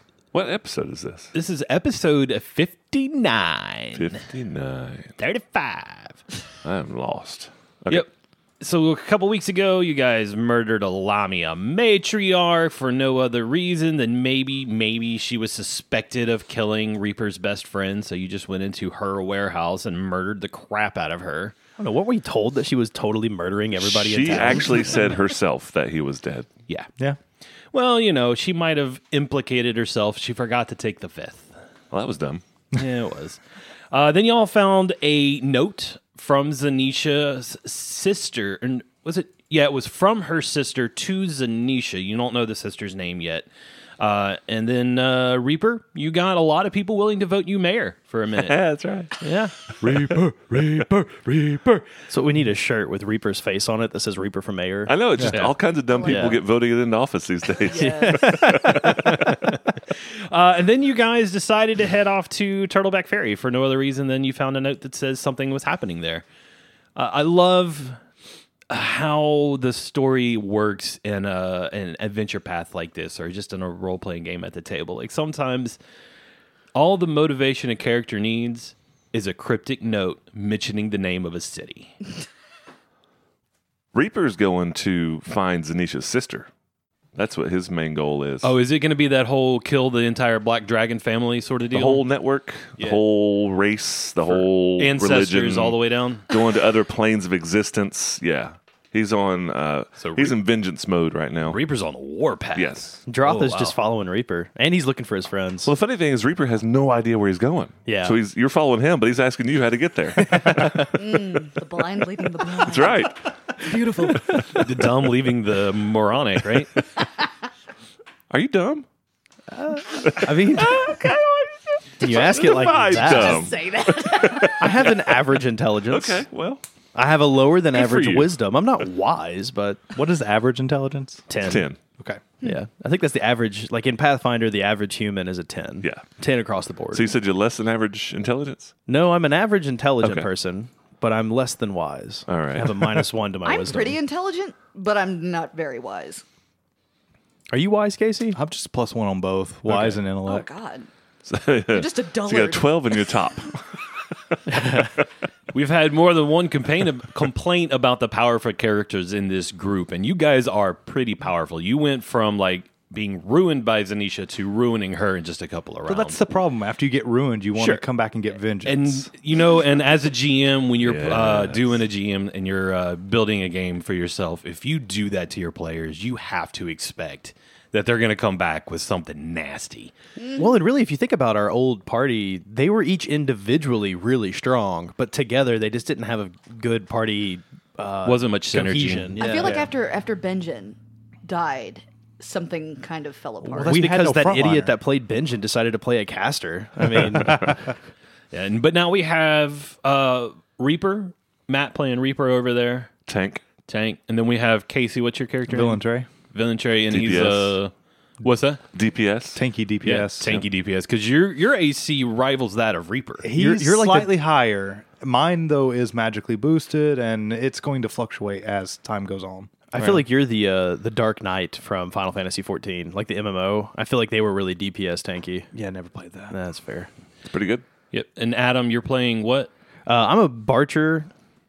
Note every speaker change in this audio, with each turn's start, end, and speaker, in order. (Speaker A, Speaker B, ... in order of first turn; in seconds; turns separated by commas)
Speaker A: 0.3-1.3, Speaker B: 1.3-4.2, Speaker A: 3.9-5.1, Speaker B: 5.2-6.2, Speaker A: 6.6-8.1, Speaker B: 7.9-21.6, Speaker C: 21.8-25.2, Speaker A: 23.8-26.5, Speaker B: 27.7-31.6, Speaker A: 31.9-32.4, Speaker B: 32.7-43.5, Speaker B: 44.0-48.6, Speaker A: 48.4-49.1, Speaker B: 49.1-49.5, Speaker C: 49.8-55.4, Speaker A: 54.9-59.2, Speaker D: 55.9-56.4, Speaker C: 56.0-56.4, Speaker D: 57.7-58.5, Speaker C: 57.7-59.5, Speaker B: 60.1-66.2, Speaker B: 66.9-68.0, Speaker B: 68.7-75.8, Speaker B: 76.7-81.9, Speaker A: 83.9-86.5, Speaker A: 87.1-88.5, Speaker B: 88.4-92.0, Speaker A: 91.7-95.8, Speaker B: 92.8-93.0, Speaker B: 94.2-96.3, Speaker A: 96.3-101.6, Speaker B: 100.0-100.4, Speaker B: 101.5-103.8, Speaker A: 102.5-102.9, Speaker C: 103.1-105.7, Speaker A: 105.6-111.4, Speaker C: 107.8-108.2, Speaker C: 110.2-110.9, Speaker D: 110.8-114.6, Speaker A: 112.5-113.3, Speaker B: 114.5-116.8, Speaker A: 118.3-118.8, Speaker C: 119.5-120.9, Speaker A: 120.0-120.5, Speaker B: 120.5-123.2, Speaker C: 122.0-123.5, Speaker D: 122.1-124.7, Speaker A: 122.4-125.3, Speaker C: 124.5-126.3, Speaker A: 125.8-126.6, Speaker C: 126.9-129.9, Speaker A: 127.8-128.3, Speaker E: 129.9-131.2, Speaker C: 131.3-131.7, Speaker A: 131.4-131.8, Speaker E: 132.0-132.2, Speaker C: 132.4-137.1, Speaker A: 135.8-136.1, Speaker A: 136.9-138.7, Speaker C: 138.9-144.0, Speaker A: 140.0-140.3, Speaker A: 142.3-143.1, Speaker D: 143.4-146.2, Speaker C: 147.5-148.4, Speaker E: 148.3-150.5, Speaker B: 149.7-150.0, Speaker D: 150.2-150.9, Speaker A: 151.3-153.8, Speaker D: 151.7-153.2, Speaker C: 154.5-154.9, Speaker B: 155.5-166.2, Speaker E: 165.9-169.1, Speaker B: 167.6-167.8, Speaker B: 168.6-179.9, Speaker A: 170.8-171.7, Speaker D: 180.2-180.5, Speaker C: 180.3-189.7, Speaker B: 188.0-189.2, Speaker D: 189.2-193.8, Speaker C: 193.6-197.7, Speaker E: 193.6-194.7, Speaker B: 198.3-202.9, Speaker A: 203.1-203.4, Speaker B: 203.7-205.8, Speaker E: 205.5-206.1, Speaker B: 206.3-208.6, Speaker A: 206.9-207.6, Speaker A: 208.7-209.4, Speaker E: 209.3-210.3, Speaker B: 209.8-213.3, Speaker E: 213.2-219.9, Speaker C: 213.3-214.1, Speaker C: 219.7-225.5, Speaker E: 225.5-226.3, Speaker C: 226.3-226.9, Speaker A: 227.2-227.6, Speaker B: 227.9-229.5, Speaker C: 229.8-231.1